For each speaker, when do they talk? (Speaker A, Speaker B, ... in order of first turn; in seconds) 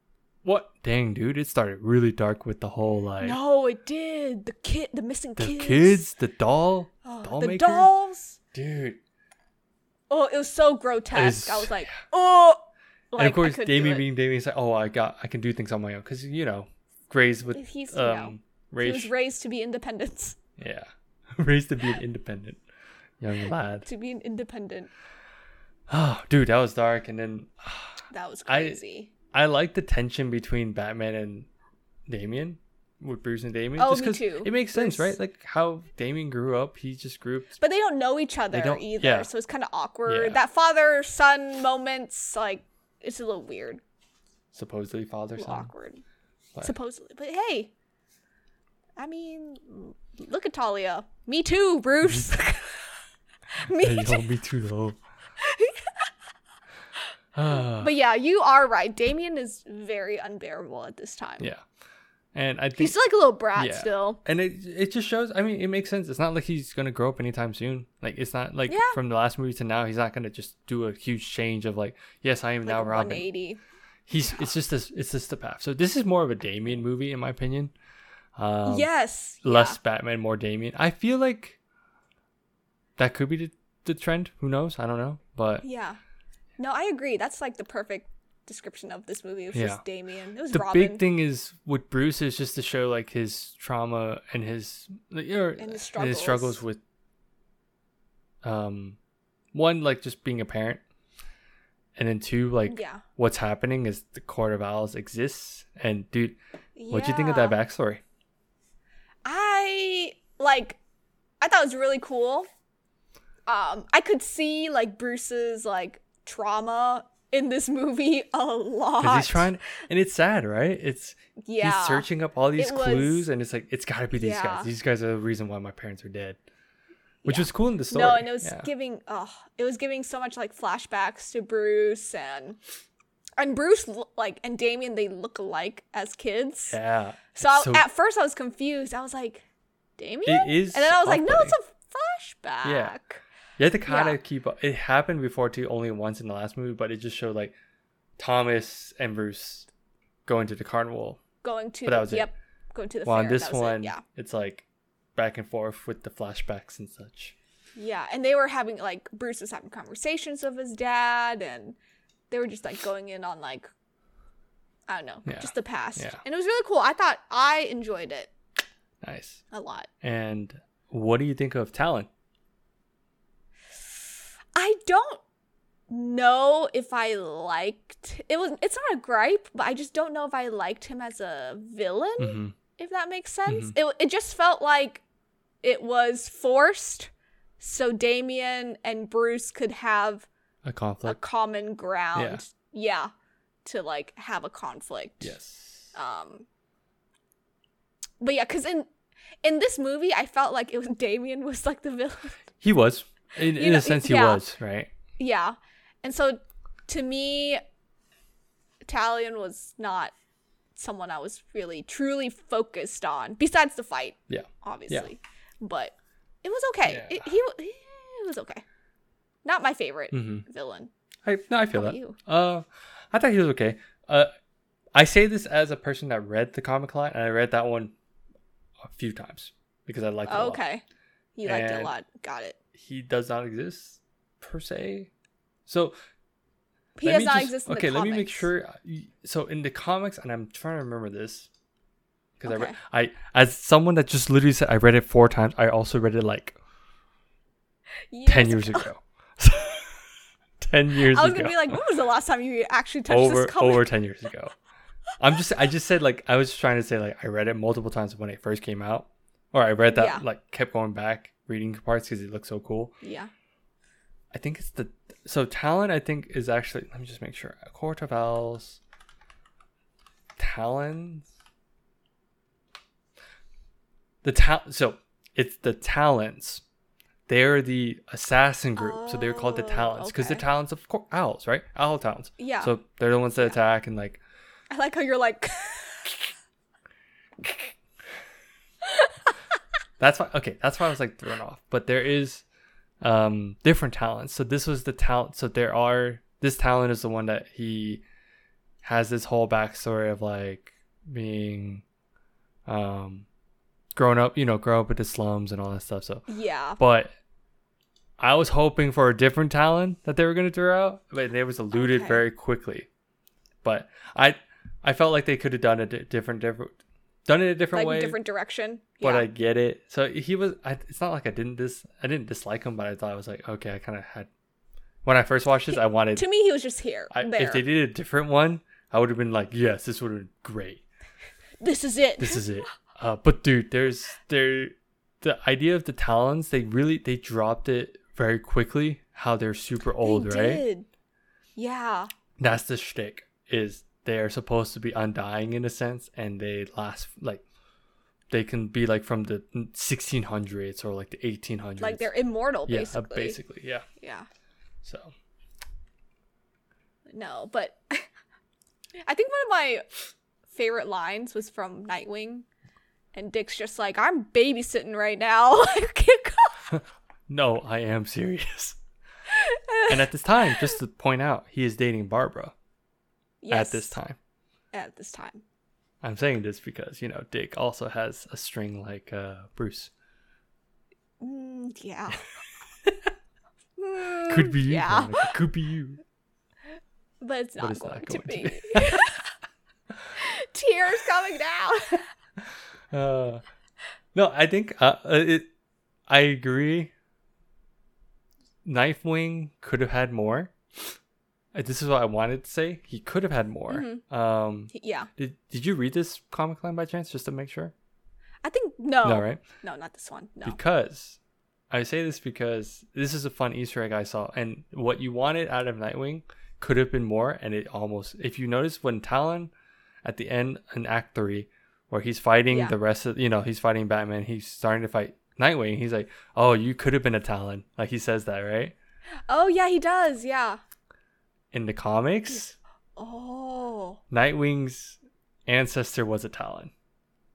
Speaker A: 0.4-3.4, 5.4-7.9, 8.5-9.0, 11.1-12.0, 13.2-19.1, 20.6-22.6, 23.2-23.9, 25.9-31.5, 32.1-37.6, 38.5-39.3, 40.1-40.4, 44.5-45.7, 53.7-55.0, 57.4-57.9, 62.4-63.0, 63.5-73.3, 74.1-77.7, 78.4-78.9, 79.4-81.6, 83.0-85.6, 89.5-89.8, 90.5-96.8, 98.4-99.0, 99.5-100.8, 102.0-106.4, 106.9-108.0, 119.0-126.4, 127.3-128.7, 136.7-137.8, 140.3-141.6, 142.6-143.0, 143.6-147.5, 148.2-149.7, 150.3-151.2, 151.8-152.3, 153.1-154.7, 155.2-157.3, 165.3-166.2, 169.0-169.4, 170.0-172.1, 182.2-182.6, 183.5-183.8, 190.7-191.2, 192.2-192.4, 195.2-195.9, 202.6-204.9, 214.3-215.1, 216.9-217.3, 220.1-220.4, 221.2-224.3, 224.9-227.9, 228.8-230.6, 231.4-231.9, 232.8-235.1, 235.7-235.9, 237.0-241.5, 242.4-246.6, 248.3-250.1, 250.6-251.8, 253.1-254.5, 255.2-263.0, 264.3-268.8, 270.4-271.3, 274.2-276.6, 277.3-284.2, 290.0-292.4, 293.0-298.0, 298.8-301.8, 302.7-303.3, 304.0-307.1, 308.2-312.9, 313.6-318.2, 319.0-324.3, 325.1-326.3, 327.1-330.8, 332.2-340.6, 342.4-347.4, 348.3-352.1, 352.7-353.9, 354.8-355.1, 366.7-368.8, 369.9-372.5, 373.5-374.2, 376.0-379.9, 384.2-386.0, 387.6-389.1, 392.9-393.4, 394.1-395.5, 396.1-396.9, 398.6-400.5, 401.5-407.7, 409.0-409.4, 410.4-411.2, 411.7-419.5, 420.1-428.7, 431.5-432.6, 434.1-436.7
Speaker B: 3.2-6.1, 7.0-8.4, 10.1-14.1, 17.5-20.4, 23.9-24.9, 28.1-29.1, 33.8-35.1, 37.6-43.8, 45.4-46.0, 46.6-47.7, 49.0-52.9, 53.6-54.2, 55.4-56.1, 57.5-61.5, 62.8-64.2, 68.7-69.0, 72.6-73.6, 78.7-79.8, 85.6-86.0, 86.6-91.0, 95.6-96.6, 102.7-103.0, 106.8-107.6, 109.2-110.8, 111.4-112.5, 113.5-119.5, 121.5-123.3, 124.1-124.7, 127.2-132.6, 133.4-136.8, 137.4-139.4, 140.0-143.2, 143.9-144.2, 151.4-154.0, 157.8-161.8, 162.3-163.7, 164.9-168.3, 169.5-169.9, 174.6-175.2, 175.9-185.0, 185.6-190.3, 191.1-193.1, 193.7-195.3, 195.9-196.5, 198.2-198.9, 199.4-202.4, 203.5-204.4, 205.2-207.6, 208.8-210.1, 210.8-218.6, 219.4-220.9, 221.7-222.2, 230.3-230.8, 231.4-232.6, 237.0-238.5, 242.5-242.8, 248.1-248.9, 251.0-253.9, 259.9-260.2, 263.0-263.3, 278.8-280.4, 282.4-282.8, 284.7-286.3, 306.3-306.8, 311.7-312.3, 317.7-319.3, 325.7-327.6, 331.6-332.5, 340.0-340.9, 341.6-342.1, 351.8-353.4, 354.0-354.3, 357.1-358.1, 359.0-359.9, 360.5-362.5, 363.1-366.7, 369.3-370.8, 373.4-374.0, 374.7-375.4, 381.2-382.2, 383.8-385.4, 387.2-389.2, 390.2-392.1, 403.7-404.0, 404.7-405.1, 408.4-410.6, 422.5-422.8, 429.3-430.6, 433.0-434.0